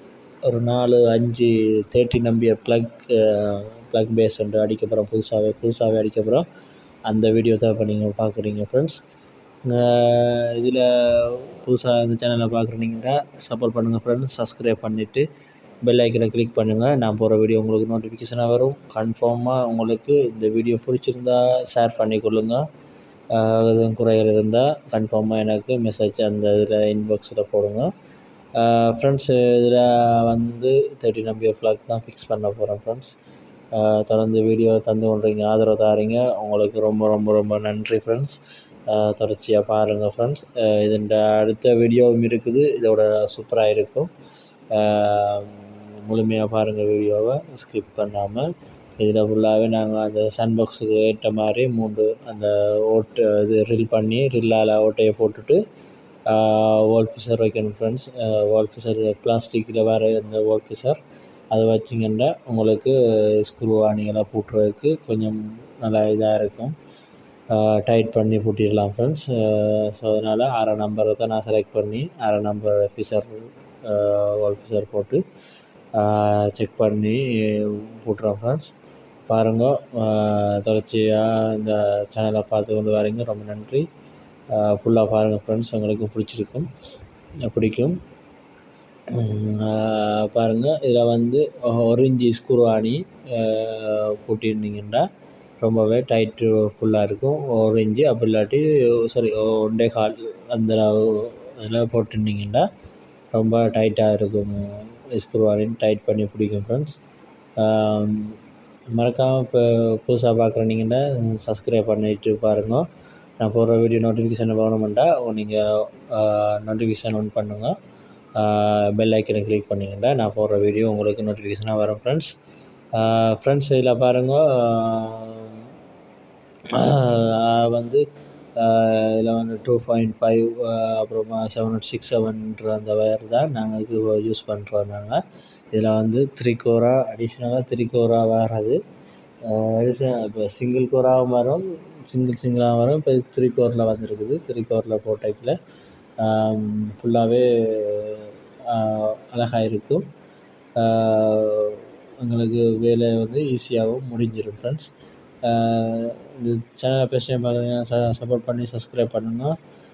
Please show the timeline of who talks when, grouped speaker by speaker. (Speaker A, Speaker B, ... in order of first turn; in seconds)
Speaker A: 0.4-6.5, 7.1-9.0, 9.6-15.2, 15.8-22.6, 23.3-27.9, 28.6-33.1, 33.7-44.1, 44.7-48.5, 49.0-55.6, 56.3-61.0, 61.5-66.7, 67.5-75.2, 75.9-78.7, 79.3-83.9, 84.5-86.7, 87.4-88.0, 89.1-95.1, 95.6-102.7, 103.3-107.0, 107.6-108.3, 108.9-112.9, 113.4-117.7, 118.4-122.3, 122.9-125.6, 126.7-128.0, 128.6-135.2, 135.7-138.8, 139.4-145.6, 146.2-150.1, 150.8-154.9, 155.4-159.6